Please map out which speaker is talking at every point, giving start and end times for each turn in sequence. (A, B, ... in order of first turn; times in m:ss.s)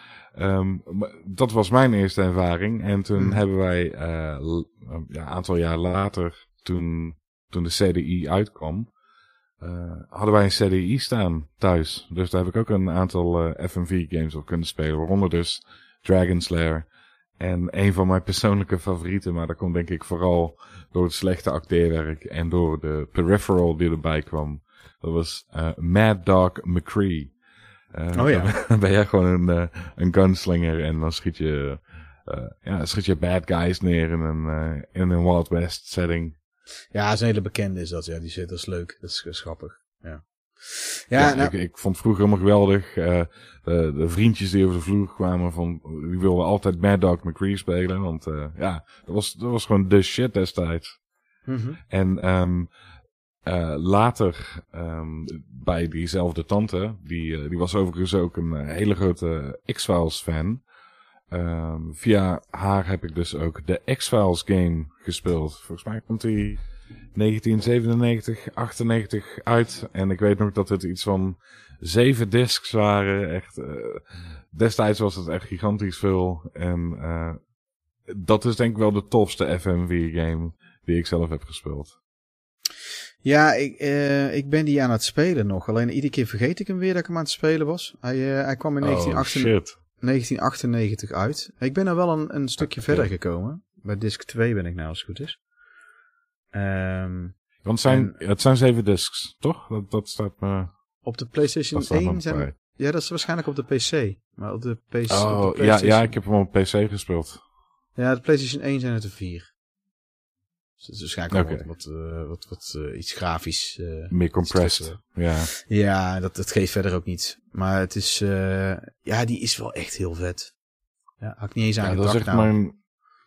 0:00.3-0:08.9 A
0:09.6-0:27.4 A
0:27.9-0:36.3 A
0:28.1-0:28.5 B
0:36.9-0:41.5 B
0:41.1-0:51.0 A
0:51.4-0:51.8 B
0:51.9-0:52.7 A
0:53.4-1:00.6 A
1:01.3-1:06.6 A
1:07.1-1:17.4 A
1:18.1-1:21.9 A
1:23.2-1:35.4 B
1:28.8-1:29.8 A
1:32.6-1:33.1 A
1:36.5-1:38.2 B
1:37.6-1:41.0 A
1:41.0-1:46.2 B
1:41.7-1:42.5 A
1:45.1-1:47.4 A
1:48.0-1:49.5 B
1:50.8-2:00.5 B
1:51.3-1:51.6 A
1:54.1-1:55.5 A
2:01.2-2:02.5 B
2:01.8-2:02.8 A